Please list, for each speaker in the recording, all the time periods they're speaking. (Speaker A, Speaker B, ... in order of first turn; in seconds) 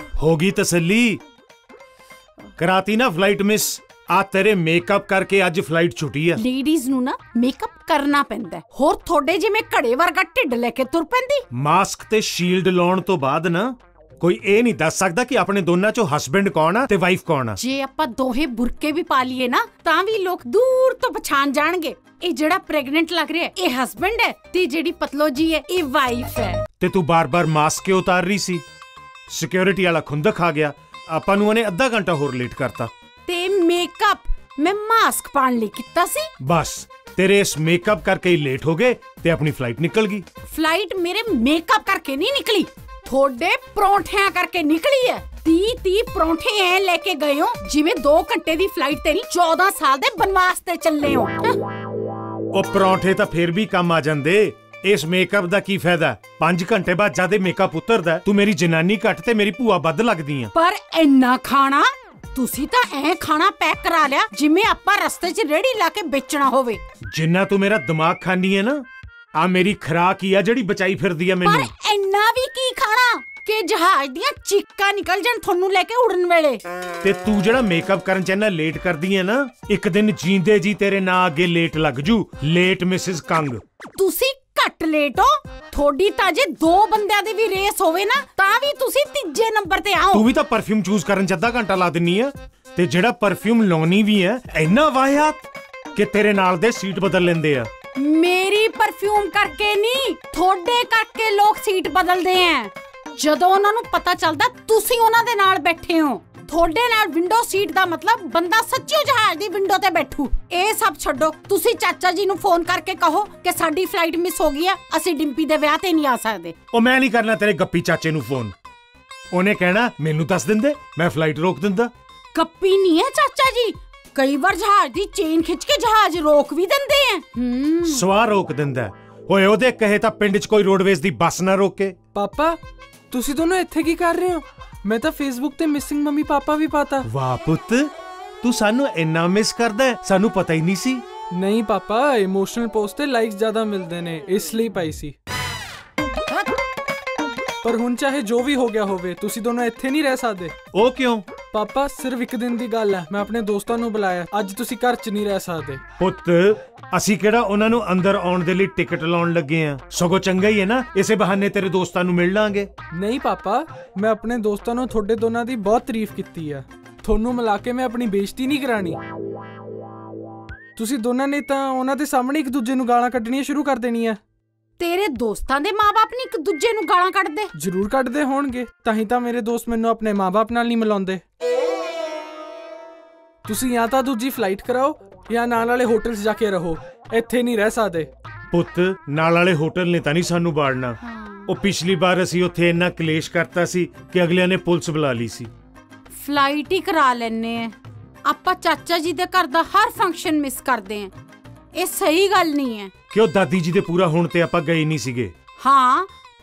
Speaker A: 0.2-1.2, 2.6-6.4, 11.5-17.6, 26.8-28.6, 29.3-32.9, 36.4-40.2, 52.5-60.5, 67.1-68.8, 69.4-71.7, 77.0-83.6, 90.1-97.7, 116.7-118.5, 119.3-121.9, 127.9-131.9, 137.0-137.9, 138.4-141.0, 150.7-151.3, 156.0-162.7, 188.5-195.5, 203.1-205.3
Speaker B: 6.4-11.4, 17.6-26.6, 33.3-36.3, 40.5-51.6, 60.5-66.8, 71.4-76.6, 84.0-90.3, 98.0-116.6, 122.3-128.1, 174.8-177.5, 191.1-191.5, 196.1-201.1, 201.7-202.9, 205.6-206.1
Speaker C: 132.2-132.6, 133.1-137.1, 141.3-145.2, 147.6-150.5, 151.5-155.8, 162.9-169.0, 170.8-174.2, 177.6-181.2, 183.4-188.1